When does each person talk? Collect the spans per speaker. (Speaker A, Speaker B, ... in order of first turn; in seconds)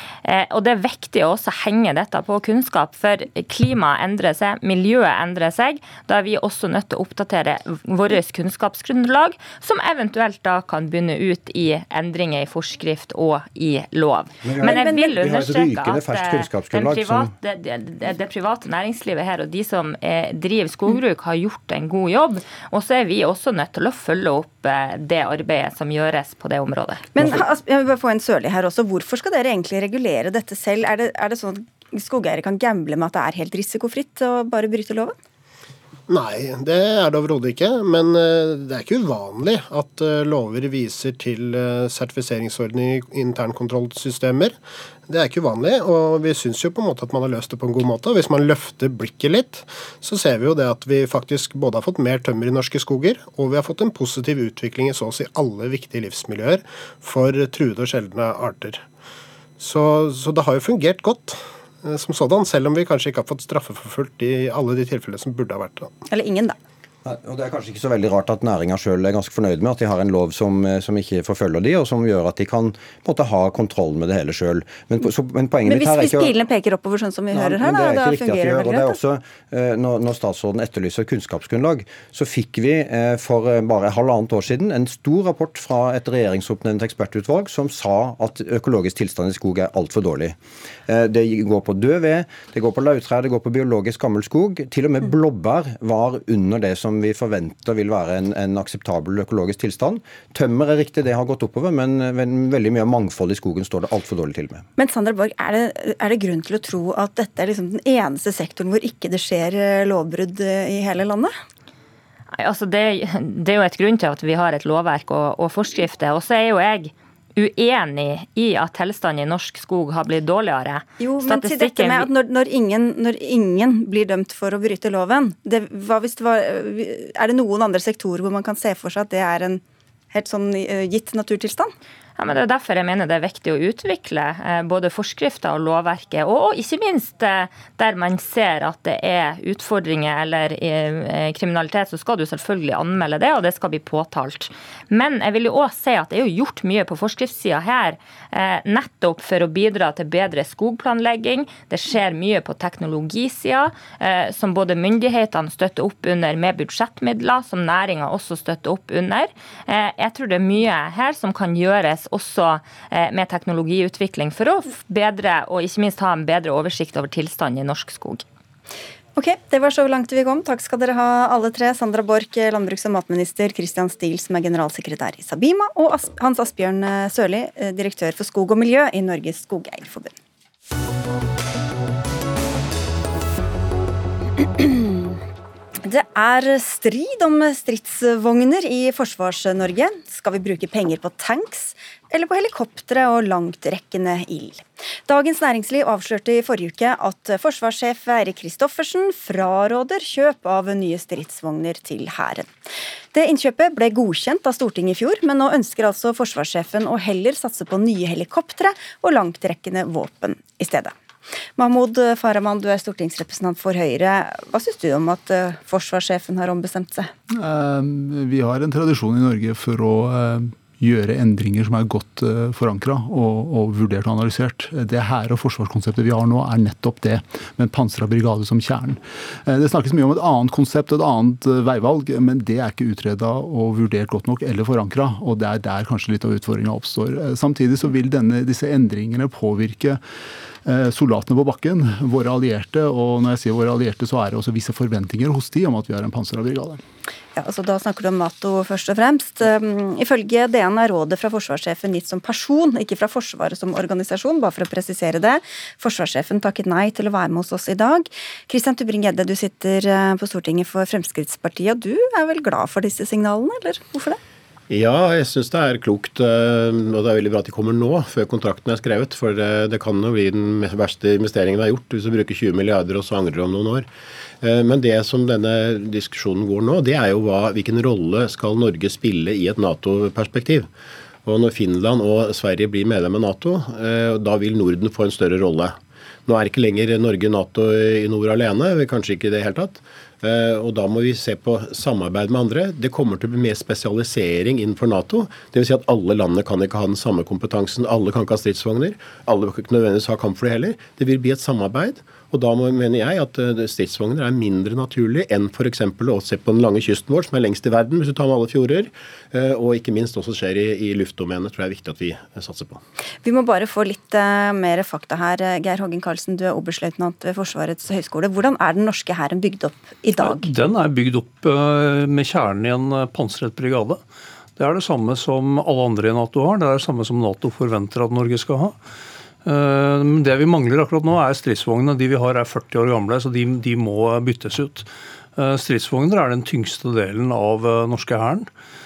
Speaker A: 0.2-27.1, 112.4-122.1, 132.2-168.2
Speaker B: 14.4-17.3, 67.0-76.3, 77.3-104.6
Speaker C: 14.6-14.9, 27.1-35.2, 66.1-66.6, 75.7-79.0, 104.8-111.3, 121.0-129.6, 130.1-131.7, 169.2-180.1, 184.4-185.2, 185.8-202.5, 203.1-211.0, 211.6-217.1, 247.3-264.2, 313.2-320.5
Speaker D: 36.1-58.8, 59.6-65.9
Speaker E: 217.3-240.0, 240.6-246.8
Speaker F: 264.7-273.9, 274.4-280.7, 281.2-312.8
Speaker G: 320.2-324.0, 324.6-328.8, 329.4-338.5